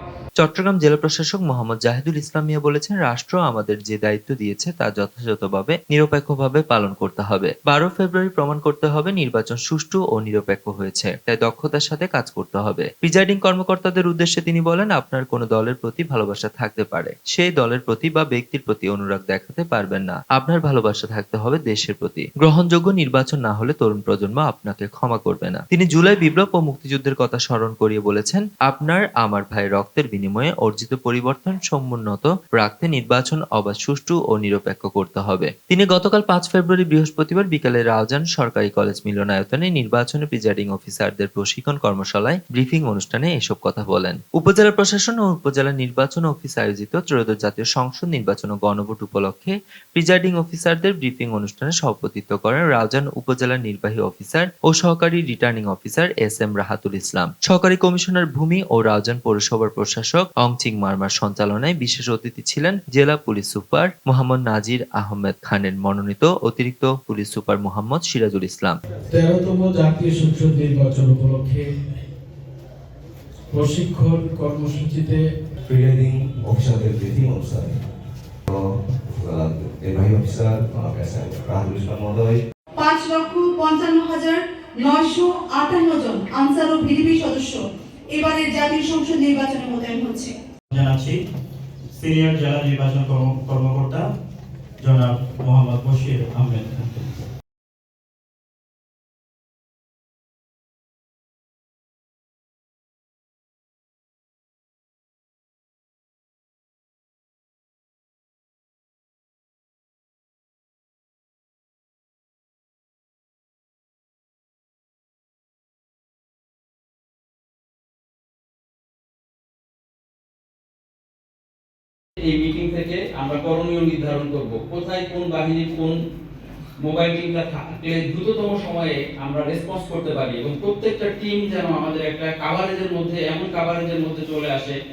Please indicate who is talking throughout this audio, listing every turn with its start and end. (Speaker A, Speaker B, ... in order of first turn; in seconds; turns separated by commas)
Speaker A: 0.4-68.8, Speaker B: 69.1-71.7, Speaker B: 73.5-75.2, Speaker C: 75.7-77.8, Speaker C: 78.5-82.4, Speaker D: 82.8-87.6, Speaker D: 88.1-90.3, Speaker E: 90.7-91.2, Speaker E: 91.9-94.0, Speaker E: 94.8-97.1, Speaker F: 122.2-126.0, Speaker F: 126.8-134.8